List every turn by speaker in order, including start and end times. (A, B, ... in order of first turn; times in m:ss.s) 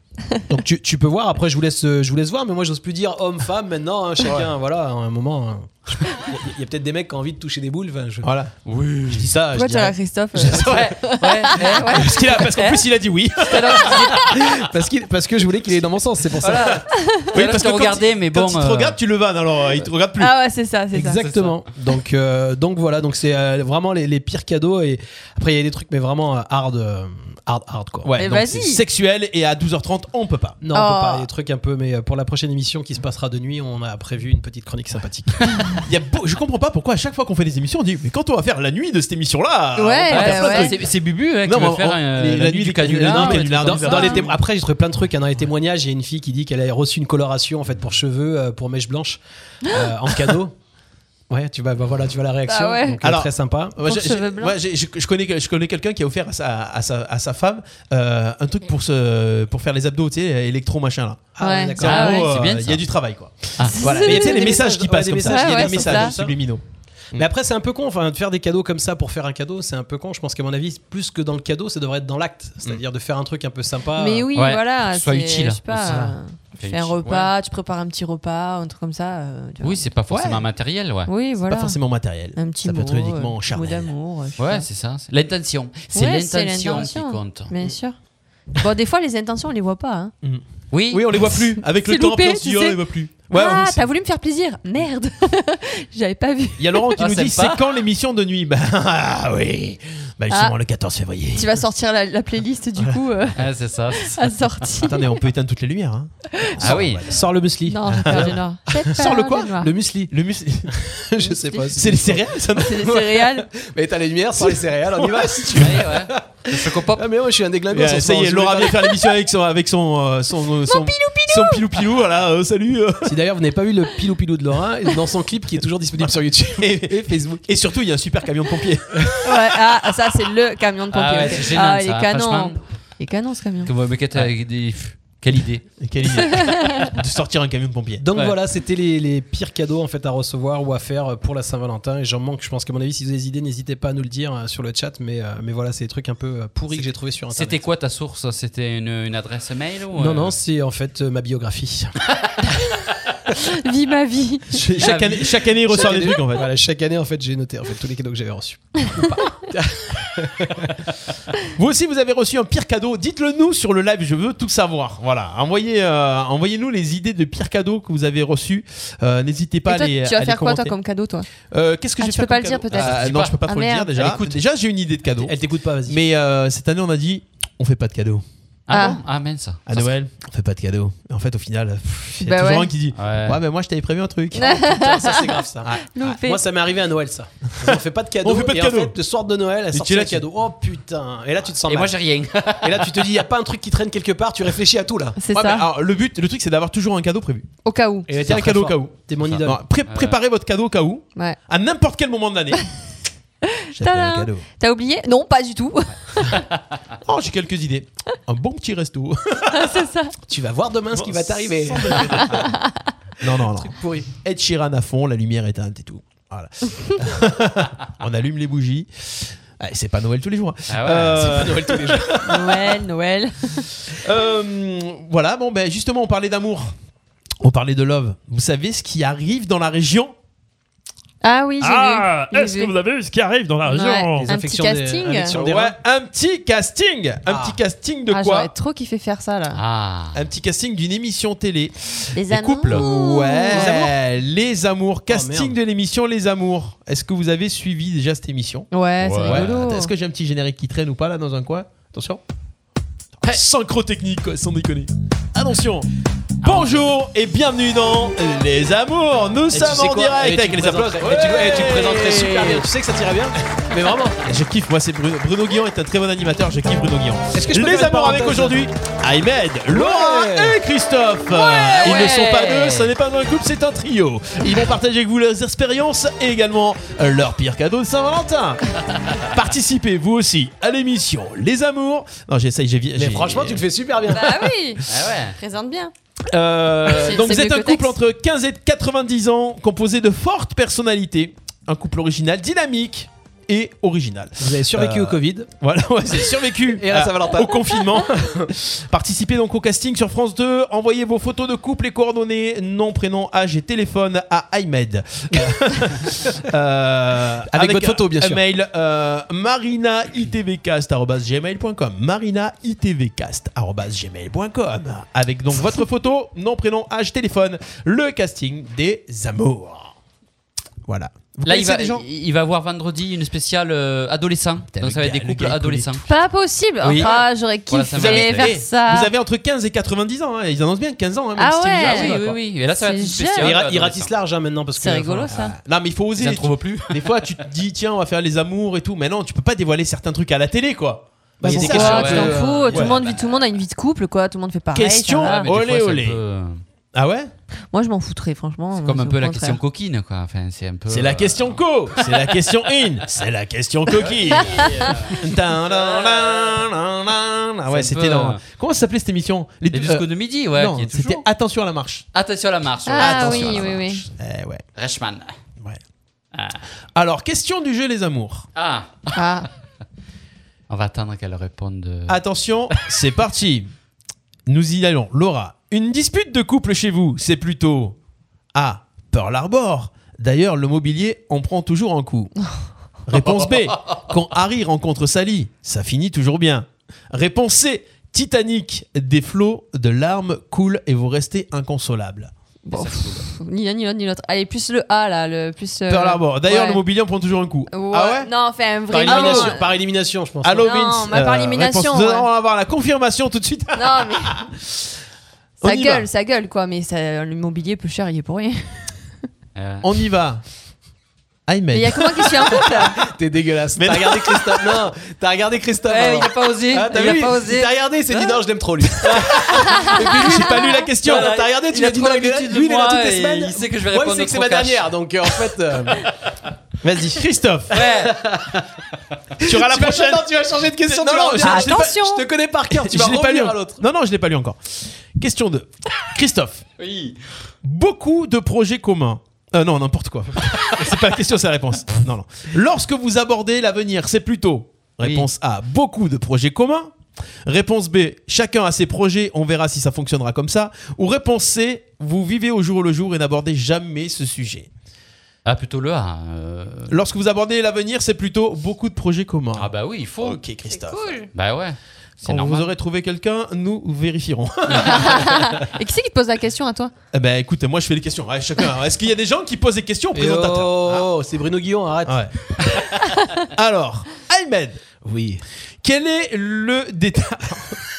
0:00.5-0:08.3 A
0:08.2-0:08.5 B
0:08.7-0:09.3 C
0:09.1-0:10.9 A
0:09.5-0:12.8 D
0:10.4-0:10.8 B
0:10.6-0:12.2 C
0:11.5-0:12.0 A
0:11.8-0:14.0 B
0:13.5-0:14.3 C
0:14.2-0:16.8 A
0:16.4-0:19.0 C
0:17.0-0:17.2 D
0:17.3-0:20.3 B
0:20.2-0:21.2 D
0:20.9-0:28.1 A
0:21.2-0:21.6 C
0:28.0-0:30.6 B
0:28.2-0:28.8 D
0:30.6-0:35.5 A
0:30.7-0:31.3 D
0:35.9-0:40.9 B
0:39.8-0:40.7 D
0:40.1-0:44.2 C
0:41.4-0:44.4 B
0:43.0-0:50.6 A
0:43.9-0:44.2 D
0:51.3-0:53.8 A
0:52.5-0:53.0 D
0:53.0-1:06.6 B
0:53.8-0:54.6 D
1:01.4-1:02.1 A
1:01.4-1:02.3 D
1:01.8-1:02.8 C
1:03.7-1:04.6 D
1:04.0-1:06.4 A
1:05.2-1:06.1 D
1:07.1-1:14.3 A
1:14.0-1:19.8 D
1:14.4-1:17.3 C
1:19.6-1:21.1 C
1:20.1-1:20.4 B
1:21.1-1:21.8 D
1:21.5-1:23.9 B
1:22.4-1:24.7 D
1:24.4-1:27.5 C
1:25.9-1:28.0 D
1:28.6-1:30.1 D
1:30.2-1:33.8 B
1:30.7-1:31.3 C
1:31.6-1:36.9 D
1:36.6-1:41.6 B
1:37.0-1:37.7 C
1:41.3-1:43.4 D
1:43.4-1:44.6 C
1:44.0-1:45.0 D
1:44.8-1:47.2 B
1:46.6-1:47.1 C
1:47.0-1:48.4 A
1:47.7-1:49.7 D
1:47.9-1:49.6 B
1:49.6-1:50.1 A
1:50.1-1:50.8 B
1:50.8-1:58.9 A
1:51.3-1:51.6 D
1:51.7-1:52.9 B
1:52.6-1:53.5 D
1:54.4-1:55.8 B
1:55.6-1:57.1 C
1:57.7-2:03.1 B
2:00.7-2:01.7 D
2:03.0-2:07.5 A
2:06.6-2:09.4 B
2:09.2-2:13.7 D
2:10.9-2:12.6 C
2:13.6-2:15.7 C
2:15.8-2:18.1 B
2:16.2-2:16.9 D
2:18.0-2:27.6 A
2:26.8-2:30.4 C
2:30.0-2:31.9 A
2:33.5-2:34.6 D
2:34.5-2:36.5 B
2:34.8-2:40.8 A
2:34.8-2:35.3 C
2:41.6-2:50.8 B
2:49.7-2:51.3 D
2:51.5-2:55.4 B
2:52.0-2:53.9 D
2:52.7-2:53.4 C
2:54.0-2:54.3 C
2:55.2-2:56.0 A
2:55.9-2:58.2 B
2:58.7-2:59.9 C
2:58.7-2:59.0 D
2:59.7-3:04.5 B
3:02.2-3:02.7 D
3:03.0-3:03.4 C
3:04.3-3:05.3 D
3:04.4-3:12.0 A
3:05.6-3:06.1 B
3:05.9-3:06.4 D
3:07.6-3:09.0 B
3:09.7-3:10.3 B
3:11.7-3:13.2 C
3:12.6-3:15.2 A
3:15.2-3:15.7 D
3:15.3-3:17.5 B
3:17.6-3:18.1 D
3:18.1-3:19.6 A
3:18.2-3:22.6 B
3:19.2-3:20.2 C
3:23.7-3:26.4 D
3:23.8-3:24.4 B
3:27.0-3:29.8 B
3:29.5-3:30.1 D
3:30.3-3:32.4 A
3:30.9-3:32.5 B
3:33.2-3:42.5 B
3:33.5-3:34.1 A
3:40.7-3:41.4 C
3:41.2-3:42.2 A
3:42.2-3:43.7 D
3:43.9-3:46.7 B
3:47.4-3:50.2 B
3:51.2-3:52.7 D
3:51.6-3:54.3 E
3:53.7-3:55.4 D
3:54.2-3:55.8 A
3:55.3-3:58.5 B
3:57.3-3:57.6 A
3:58.1-3:59.6 D
3:59.5-4:00.2 C
4:00.1-4:08.7 B
4:02.2-4:03.7 D
4:03.5-4:04.0 A
4:05.1-4:05.6 A
4:08.7-4:09.9 D
4:09.0-4:09.6 C
4:09.2-4:12.2 B
4:13.2-4:15.9 B
4:16.4-4:22.7 B
4:16.4-4:16.8 C
4:19.5-4:24.2 A
4:24.2-4:38.6 B
4:27.3-4:28.6 A
4:29.7-4:30.6 A
4:31.5-4:32.9 C
4:39.3-4:43.7 B
4:43.0-4:44.5 A
4:44.1-4:44.8 D
4:44.9-4:45.4 C
4:45.4-4:45.9 D
4:46.3-5:20.0 B
4:46.9-4:48.0 D
4:54.4-4:55.5 A
4:56.8-4:58.5 A
5:07.5-5:08.4 A
5:20.9-5:22.0 B
5:21.4-5:26.1 C
5:24.7-5:26.0 B
5:26.1-5:29.1 D
5:26.8-5:27.1 C
5:27.0-5:27.3 B
5:27.7-5:28.6 C
5:27.9-5:32.2 B
5:31.4-5:32.2 D
5:31.8-5:34.1 C
5:32.8-5:33.6 D
5:33.4-5:35.4 A
5:34.8-5:35.6 D
5:35.3-5:43.0 B
5:36.2-5:37.3 C
5:41.4-5:42.9 A
5:41.4-5:45.5 D
5:41.6-5:42.4 C
5:43.0-5:43.4 C
5:44.7-5:46.2 B
5:45.2-5:46.6 C
5:46.9-5:47.3 B
5:47.7-5:49.6 D
5:48.8-5:51.6 C
5:50.9-6:02.1 B
5:53.9-5:56.6 C
5:57.7-5:58.4 C
5:59.7-6:01.2 C
6:02.1-6:03.8 C
6:02.9-6:04.0 D
6:03.0-6:04.6 B
6:04.8-6:05.3 C
6:06.4-6:06.6 C
6:07.0-6:08.5 B
6:08.6-6:09.2 C
6:09.1-6:09.5 D
6:10.7-6:12.9 C
6:12.1-6:13.7 B
6:14.5-6:18.0 B
6:18.5-6:22.3 B
6:23.1-6:32.3 B
6:23.4-6:24.0 C
6:32.7-6:36.8 D
6:32.7-6:33.3 C
6:35.9-6:38.3 B
6:37.7-6:39.6 D
6:38.9-6:40.7 A
6:39.0-6:39.6 B
6:40.4-6:44.5 B
6:40.6-6:42.3 D
6:43.8-6:44.4 D
6:45.6-6:46.1 B
6:45.6-6:49.0 D
6:49.6-6:49.9 C
6:49.8-6:50.4 B
6:51.5-6:52.8 B
6:51.7-6:53.0 D
6:53.0-7:00.4 A
6:53.8-6:54.8 B
6:55.8-6:58.3 C
6:59.0-6:59.4 C
6:59.8-7:01.3 B
7:01.0-7:04.9 C
7:01.0-7:06.1 A
7:06.8-7:07.2 A
7:07.1-7:07.8 B
7:07.7-7:08.7 C
7:07.7-7:08.1 A
7:09.4-7:12.0 B
7:09.4-7:13.8 A
7:11.4-7:12.2 D
7:12.7-7:16.7 B
7:16.8-7:17.2 C
7:17.6-7:27.0 B
7:25.0-7:25.3 C
7:27.5-7:34.7 B
7:35.5-7:37.0 C
7:36.9-7:41.2 B
7:39.5-7:40.4 C
7:40.7-7:41.3 D
7:41.3-7:42.7 C
7:42.2-7:45.3 B
7:44.8-7:46.9 D
7:47.1-7:51.1 B
7:50.1-7:52.2 A
7:52.1-7:52.4 B
7:53.4-7:54.8 B
7:55.0-7:55.4 A
7:55.8-7:57.8 B